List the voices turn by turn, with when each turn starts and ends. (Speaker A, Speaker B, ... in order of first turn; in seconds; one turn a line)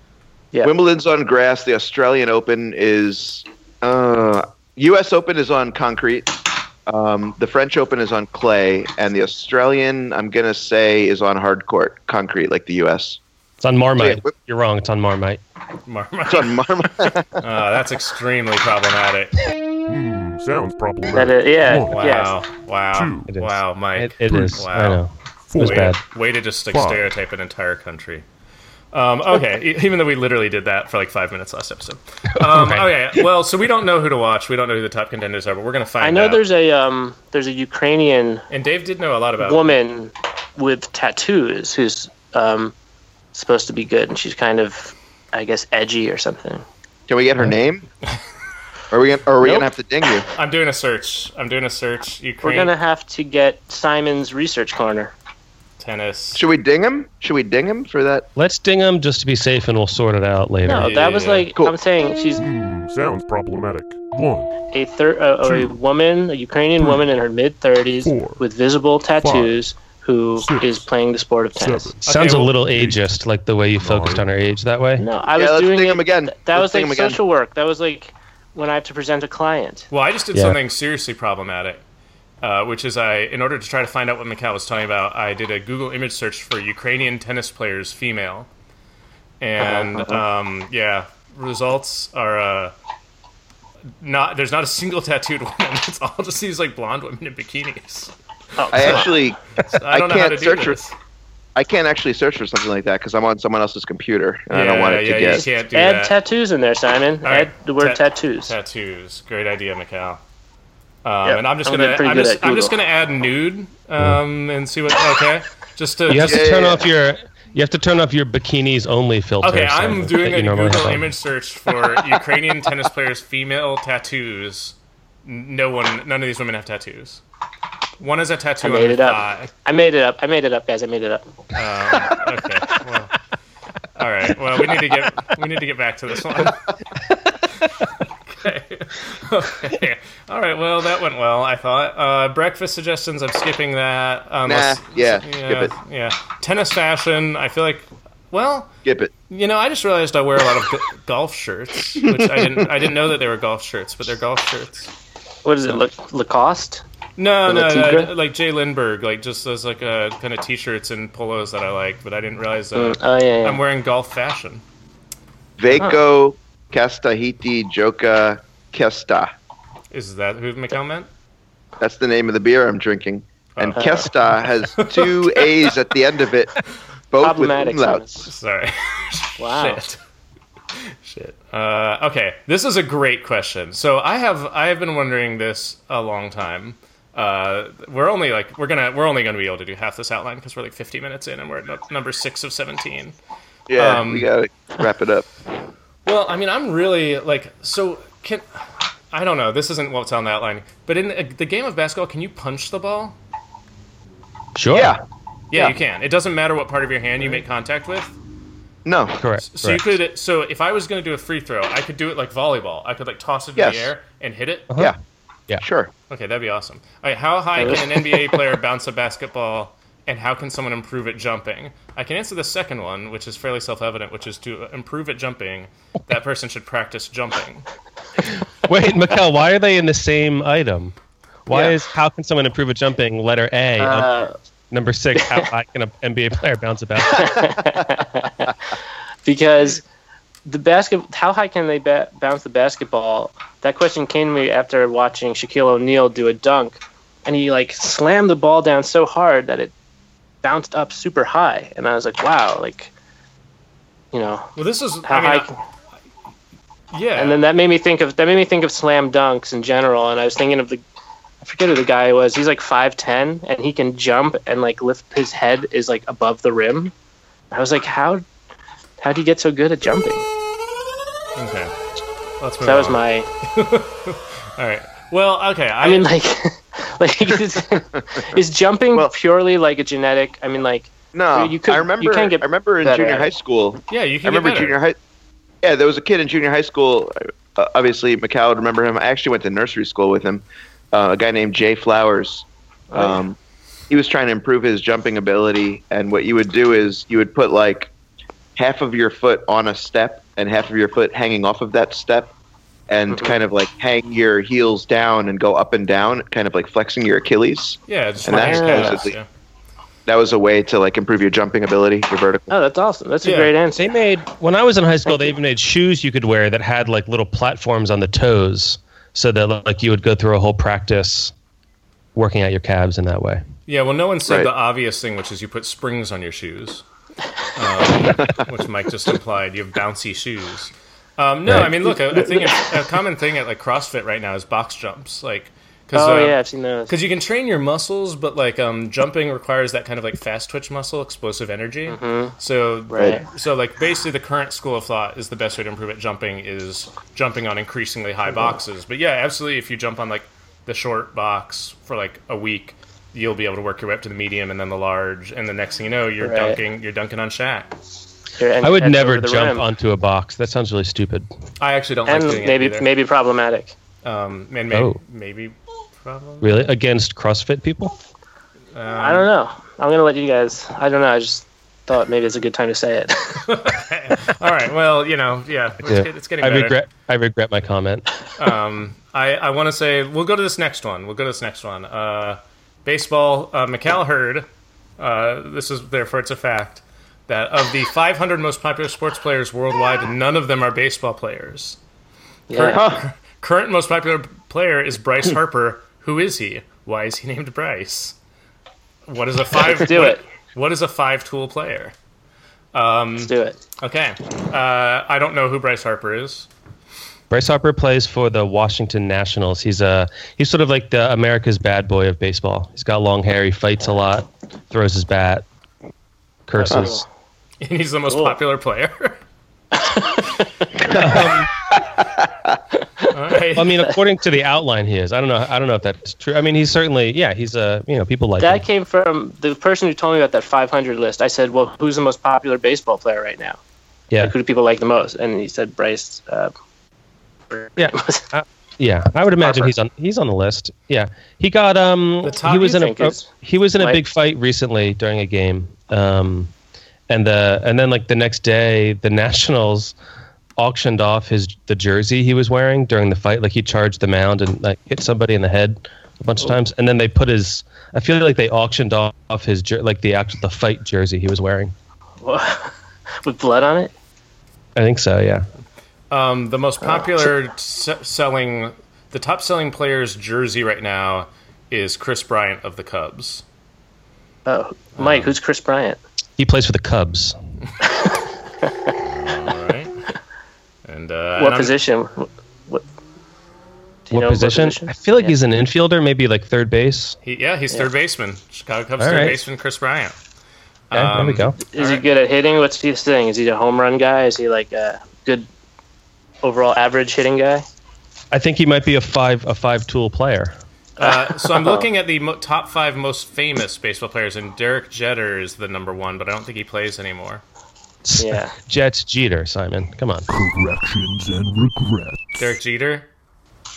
Speaker A: 0.6-13.2
Speaker B: 13.6-15.4
Speaker A: 14.0-14.3
Speaker C: 15.9-16.6
Speaker A: 16.3-17.3
Speaker C: 17.4-19.3
Speaker D: 19.9-22.3
Speaker E: 21.1-22.4
Speaker C: 21.9-25.0
Speaker D: 22.9-23.4
Speaker B: 23.3-26.0
Speaker D: 24.3-24.6
Speaker D: 25.5-26.0
Speaker C: 25.6-28.3
Speaker D: 26.7-27.1
Speaker C: 28.9-36.4
Speaker B: 32.4-32.9
Speaker E: 36.0-38.5
Speaker C: 38.5-39.7
Speaker E: 39.4-42.7
Speaker E: 43.3-46.6
Speaker A: 47.1-47.9
Speaker A: 48.9-50.3
Speaker E: 49.4-49.7
Speaker C: 50.3-52.7
Speaker E: 52.4-55.1
Speaker C: 55.8-56.4
Speaker A: 56.3-58.3
Speaker B: 58.4-61.0
Speaker E: 60.6-62.4
Speaker C: 60.8-61.5
Speaker D: 62.4-64.5
Speaker E: 64.7-71.9
Speaker D: 65.4-65.8
Speaker D: 68.0-68.5
Speaker D: 69.2-69.6
Speaker D: 70.4-70.9
Speaker D: 71.5-72.0
Speaker C: 72.0-72.5
Speaker B: 72.0-75.1
Speaker D: 72.6-73.1
Speaker D: 73.8-74.3
Speaker E: 75.0-79.9
Speaker A: 75.3-77.2
Speaker C: 79.9-81.8
Speaker C: 82.4-88.5
Speaker C: 89.4-92.7
Speaker E: 89.6-90.2
Speaker C: 94.0-99.1
Speaker E: 98.6-99.2
Speaker A: 98.7-100.8
Speaker C: 99.6-100.9
Speaker A: 101.6-105.4
Speaker C: 104.5-106.2
Speaker E: 105.3-108.5
Speaker C: 107.2-110.2
Speaker C: 111.0-116.5
Speaker E: 111.2-112.7
Speaker B: 116.1-121.1
Speaker A: 116.2-116.9
Speaker C: 119.4-127.2
Speaker C: 128.0-129.5
Speaker E: 128.6-131.3
Speaker C: 131.5-133.1
Speaker C: 133.9-136.6
Speaker C: 137.6-148.7
Speaker A: 144.5-145.7
Speaker A: 148.8-149.1
Speaker C: 149.3-154.9
Speaker A: 152.2-152.5
Speaker E: 155.4-156.8
Speaker C: 157.2-164.6
Speaker E: 157.5-158.1
Speaker E: 162.8-163.6
Speaker A: 165.6-169.3
Speaker C: 169.9-171.1
Speaker A: 171.8-176.6
Speaker C: 173.6-175.5
Speaker E: 173.8-174.1
Speaker A: 177.1-178.3
Speaker E: 177.2-178.3
Speaker C: 178.3-180.0
Speaker E: 179.4-179.8
Speaker C: 180.9-193.2
Speaker A: 193.7-195.3
Speaker C: 193.8-194.3
Speaker C: 196.1-198.5
Speaker C: 199.1-203.2
Speaker B: 204.6-205.0
Speaker A: 204.7-205.0
Speaker C: 205.5-208.2
Speaker A: 208.8-209.2
Speaker B: 209.2-209.9
Speaker C: 209.4-214.7
Speaker A: 213.6-213.9
Speaker B: 214.7-214.9
Speaker A: 215.6-215.9
Speaker C: 216.1-227.7
Speaker E: 217.6-218.4
Speaker B: 228.7-230.9
Speaker B: 231.5-234.1
Speaker E: 231.5-231.8
Speaker E: 233.8-234.3
Speaker B: 234.7-237.5
Speaker E: 235.2-235.5
Speaker E: 237.1-238.6
Speaker E: 239.2-239.8
Speaker E: 240.5-249.7
Speaker E: 250.4-252.9
Speaker E: 254.1-254.5
Speaker C: 254.6-255.5
Speaker E: 255.1-255.5
Speaker C: 256.9-257.4
Speaker E: 257.2-260.8
Speaker E: 261.4-266.9
Speaker E: 267.5-268.2
Speaker E: 269.0-270.3
Speaker C: 271.4-271.7
Speaker C: 272.4-276.1
Speaker E: 272.6-273.3
Speaker E: 275.8-283.3
Speaker A: 281.1-285.0
Speaker C: 283.9-284.8
Speaker A: 285.6-293.4
Speaker E: 292.9-293.2
Speaker A: 293.9-297.9
Speaker A: 298.6-302.3
Speaker A: 302.9-309.1
Speaker E: 303.1-303.4
Speaker C: 307.9-309.3
Speaker E: 308.3-309.1
Speaker A: 310.1-312.5
Speaker E: 312.5-313.9
Speaker C: 313.2-313.5
Speaker B: 313.8-321.3
Speaker B: 322.1-323.4
Speaker C: 323.7-326.8
Speaker C: 327.5-336.4
Speaker A: 328.1-328.4
Speaker B: 331.5-331.8
Speaker E: 332.1-332.9
Speaker E: 335.9-336.9
Speaker C: 336.9-357.7
Speaker E: 341.9-342.4
Speaker E: 342.9-343.2
Speaker E: 356.2-356.6
Speaker E: 358.4-359.7
Speaker B: 358.6-361.3
Speaker C: 361.6-362.9
Speaker E: 362.1-363.8
Speaker C: 364.0-366.6
Speaker B: 364.7-365.0
Speaker B: 366.4-367.9
Speaker C: 368.7-369.3
Speaker E: 369.0-373.5
Speaker C: 373.4-376.8
Speaker B: 375.8-378.1
Speaker C: 378.4-384.5
Speaker C: 385.0-391.8
Speaker E: 392.5-392.8
Speaker C: 392.5-398.2
Speaker A: 392.7-393.1
Speaker C: 399.1-401.9
Speaker E: 399.6-400.2
Speaker C: 402.7-406.5
Speaker E: 403.2-403.6
Speaker B: 407.3-415.4
Speaker B: 416.5-417.1
Speaker E: 416.6-417.1
Speaker C: 417.6-419.2
Speaker E: 418.1-418.4
Speaker E: 419.7-420.4
Speaker A: 420.8-421.1
Speaker B: 420.9-421.5
Speaker C: 423.1-423.8
Speaker B: 423.6-428.6
Speaker E: 428.4-433.6
Speaker E: 434.2-436.5
Speaker E: 437.5-438.2
Speaker B: 437.8-446.5
Speaker E: 439.4-439.7
Speaker C: 442.2-442.8
Speaker E: 442.6-444.0
Speaker B: 447.1-449.9
Speaker B: 450.6-461.7
Speaker E: 462.2-463.9
Speaker B: 464.8-465.5
Speaker C: 466.1-473.4
Speaker E: 466.8-467.3
Speaker E: 474.5-476.0
Speaker C: 475.0-475.3
Speaker B: 476.4-477.4
Speaker C: 479.0-479.9
Speaker C: 480.9-481.7
Speaker E: 481.4-482.8
Speaker E: 484.1-485.3
Speaker B: 484.1-487.2
Speaker C: 487.2-490.2
Speaker B: 489.0-489.4
Speaker C: 490.9-492.0
Speaker B: 490.9-491.6
Speaker E: 491.7-495.5
Speaker E: 496.4-497.7
Speaker B: 498.3-500.6
Speaker E: 501.0-501.9
Speaker C: 501.0-507.4
Speaker B: 508.0-510.3
Speaker E: 508.2-508.5
Speaker D: 510.3-512.5
Speaker C: 512.4-513.1